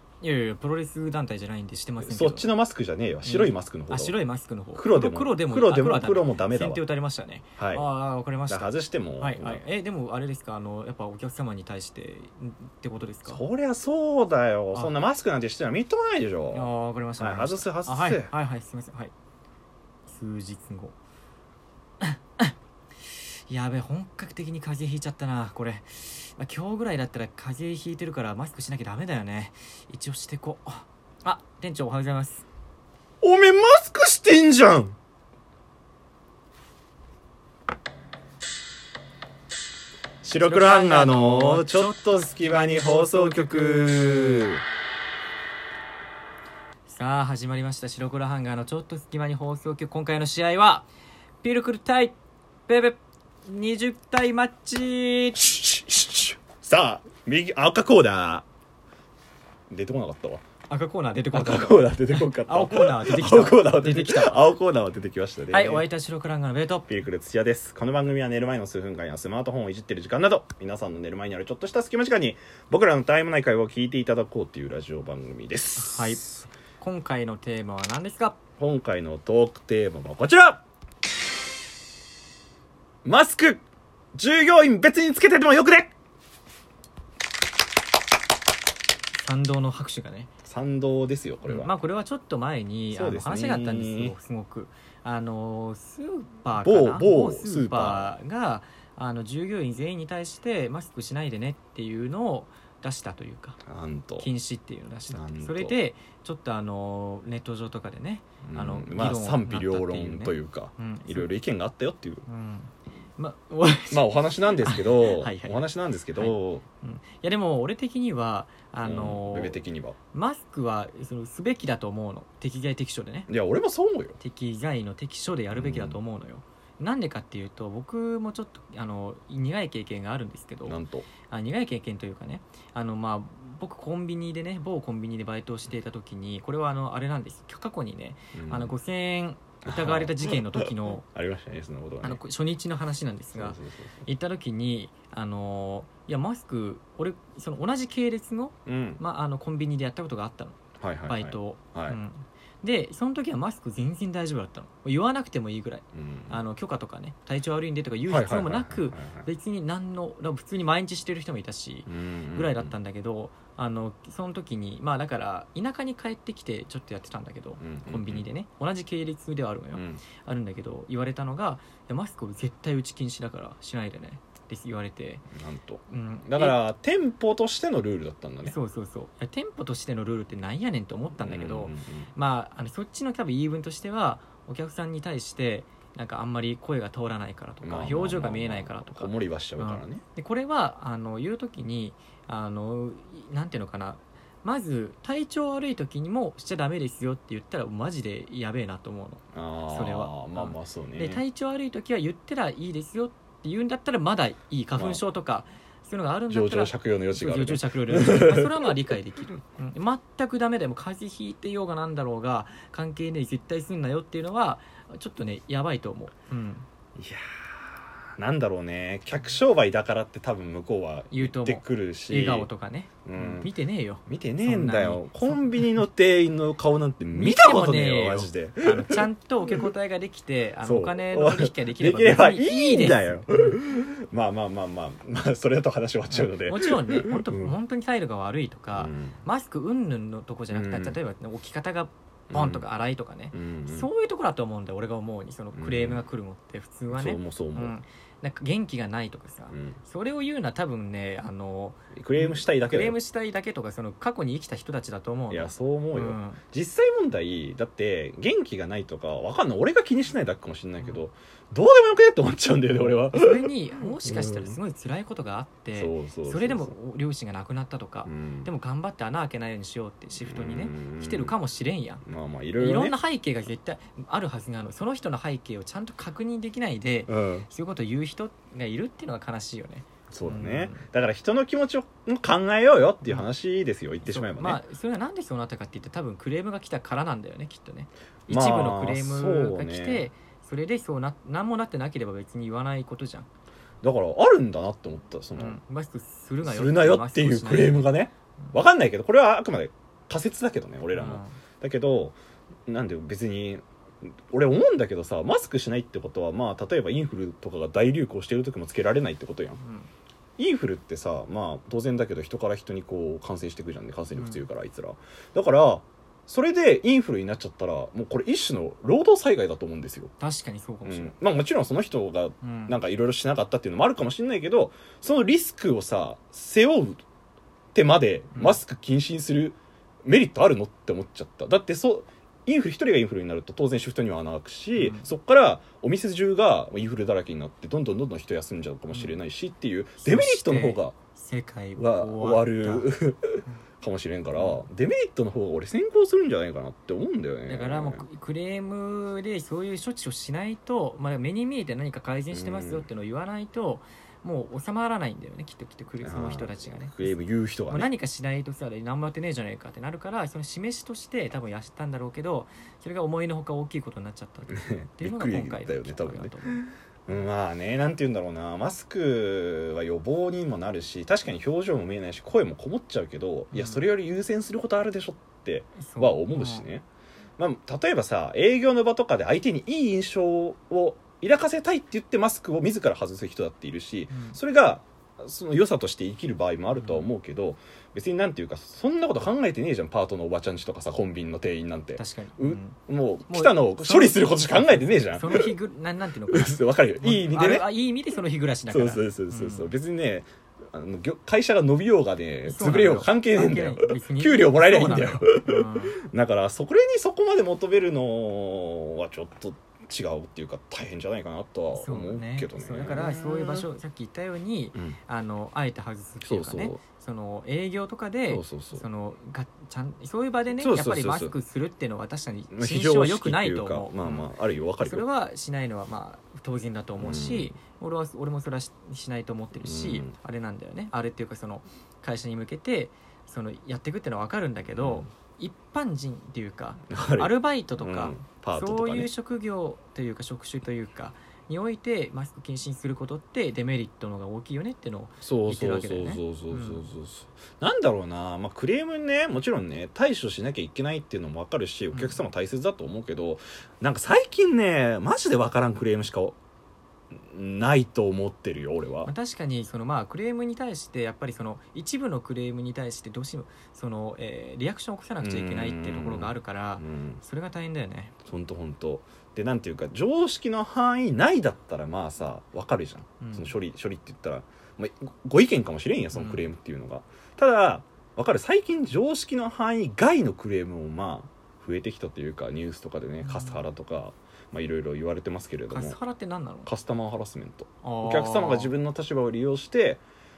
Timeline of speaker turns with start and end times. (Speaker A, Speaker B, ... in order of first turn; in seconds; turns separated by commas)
Speaker A: 0.2-2.5, Speaker B: 2.0-4.2, Speaker A: 3.2-13.4, Speaker B: 4.7-6.8, Speaker B: 7.6-7.9, Speaker B: 8.5-9.6, Speaker B: 13.2-18.3, Speaker A: 16.5-19.1, Speaker A: 20.1-20.9, Speaker A: 22.0-22.5, Speaker A: 23.1-32.4, Speaker B: 33.2-35.0, Speaker B: 40.2-44.6, Speaker A: 40.4-43.3, Speaker A: 46.9-50.9, Speaker A: 51.4-52.1, Speaker A: 52.7-55.5, Speaker B: 55.4-58.4, Speaker B: 59.7-60.4, Speaker A: 60.7-64.5, Speaker B: 61.3-65.8, Speaker A: 65.5-66.9, Speaker B: 66.9-76.2, Speaker A: 75.8-78.4, Speaker B: 78.6-80.6, Speaker B: 83.0-83.6, Speaker B: 84.1-85.9, Speaker A: 89.2-90.3, Speaker B: 90.4-91.7, Speaker A: 91.4-103.6, Speaker B: 92.9-94.1, Speaker B: 96.5-98.1, Speaker B: 103.6-104.3, Speaker A: 104.2-111.3, Speaker B: 105.1-105.8, Speaker B: 108.4-112.2, Speaker A: 112.3-115.6, Speaker B: 113.9-116.6, Speaker A: 116.1-119.6, Speaker B: 118.8-120.0, Speaker A: 120.1-123.3, Speaker B: 123.3-124.2, Speaker A: 124.2-141.0, Speaker B: 125.5-126.0, Speaker B: 130.7-131.1, Speaker B: 138.3-138.7, Speaker B: 139.6-142.2, Speaker A: 142.0-175.3, Speaker B: 143.3-144.0, Speaker B: 148.7-149.0, Speaker B: 150.8-152.0, Speaker B: 155.9-156.4, Speaker B: 158.1-159.3, Speaker B: 161.9-162.7, Speaker B: 167.6-168.2, Speaker B: 169.7-170.0, Speaker B: 175.3-178.6, Speaker A: 175.9-176.6, Speaker A: 178.4-216.7, Speaker B: 181.1-182.1, Speaker B: 187.6-190.0, Speaker B: 199.3-201.2, Speaker B: 204.8-205.0, Speaker B: 206.3-208.7, Speaker B: 216.9-222.5, Speaker A: 221.1-225.8, Speaker B: 223.0-223.5, Speaker B: 224.1-229.0, Speaker A: 227.1-233.6, Speaker B: 230.6-237.5, Speaker A: 236.1-256.4, Speaker B: 238.7-239.2, Speaker B: 240.5-241.0, Speaker B: 242.3-242.6, Speaker B: 243.3-243.9, Speaker B: 245.5-246.1, Speaker B: 246.9-247.7, Speaker B: 249.5-249.8, Speaker B: 251.9-253.0, Speaker B: 255.3-264.6, Speaker A: 262.9-272.0, Speaker B: 265.7-266.7, Speaker B: 268.0-268.5, Speaker B: 270.2-271.4, Speaker B: 272.0-272.9, Speaker A: 272.6-280.8, Speaker B: 277.1-277.5, Speaker B: 280.1-284.6, Speaker A: 284.0-293.3, Speaker B: 288.3-290.1, Speaker B: 293.8-295.6, Speaker A: 295.4-297.9, Speaker B: 296.4-302.1, Speaker A: 300.9-301.4, Speaker B: 302.7-309.6, Speaker A: 309.6-309.9, Speaker B: 310.4-320.1, Speaker A: 320.2-321.1, Speaker B: 320.8-327.0, Speaker A: 322.4-322.8, Speaker B: 327.7-340.9, Speaker A: 328.3-328.6, Speaker A: 334.7-335.1, Speaker A: 338.9-339.2, Speaker A: 340.0-342.9, Speaker B: 341.8-348.0, Speaker A: 347.4-357.1, Speaker B: 352.3-352.9, Speaker B: 356.0-357.9, Speaker A: 357.7-366.6, Speaker B: 364.5-376.8, Speaker A: 373.5-373.9, Speaker A: 375.8-376.6, Speaker B: 377.4-395.5, Speaker A: 384.1-384.4, Speaker A: 386.8-387.1, Speaker A: 391.9-392.8, Speaker A: 393.3-399.7, Speaker B: 396.3-397.7, Speaker B: 398.7-413.6, Speaker A: 402.4-406.0, Speaker A: 411.7-446.9, Speaker B: 416.2-416.8, Speaker B: 418.3-418.8, Speaker B: 420.6-421.3, Speaker B: 422.5-425.0, Speaker B: 427.0-427.6, Speaker B: 429.6-430.1, Speaker B: 434.8-435.1, Speaker B: 436.9-439.1, Speaker B: 445.2-456.4, Speaker A: 451.9-452.2, Speaker B: 457.1-459.1, Speaker A: 459.0-468.1, Speaker B: 465.2-467.2, Speaker B: 468.2-486.0, Speaker A: 473.2-473.5, Speaker A: 476.1-476.4, Speaker A: 483.2-483.6, Speaker A: 485.7-486.7, Speaker B: 486.6-490.0, Speaker A: 487.8-488.7